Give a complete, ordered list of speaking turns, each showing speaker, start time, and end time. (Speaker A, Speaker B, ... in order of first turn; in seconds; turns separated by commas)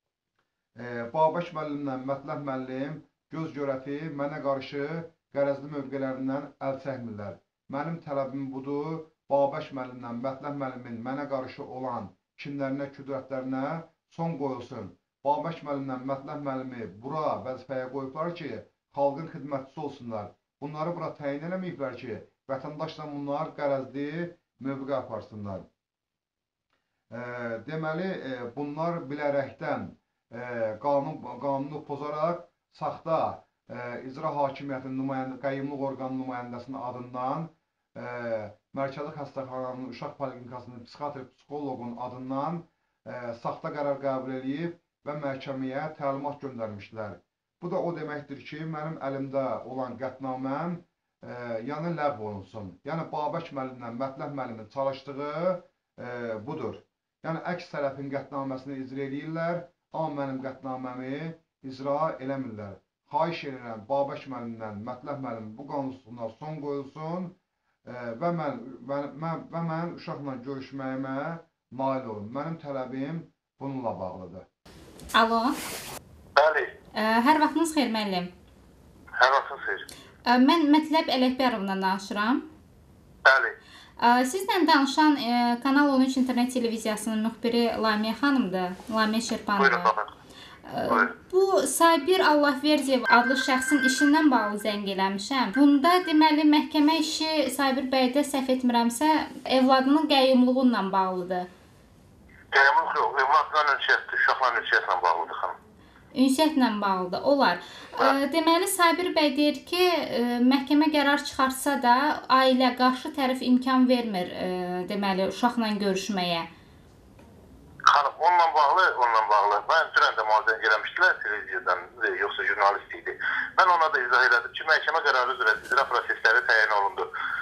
Speaker A: 0.8-25.7, Speaker A: 27.1-74.5, Speaker B: 75.2-75.5, Speaker C: 76.4-76.7, Speaker B: 77.0-78.3, Speaker C: 79.2-79.9, Speaker B: 80.3-82.4, Speaker C: 83.2-83.6, Speaker B: 84.0-89.9, Speaker C: 89.6-90.1, Speaker B: 90.7-101.5, Speaker C: 102.5-105.6, Speaker B: 106.1-116.5, Speaker C: 117.9-127.1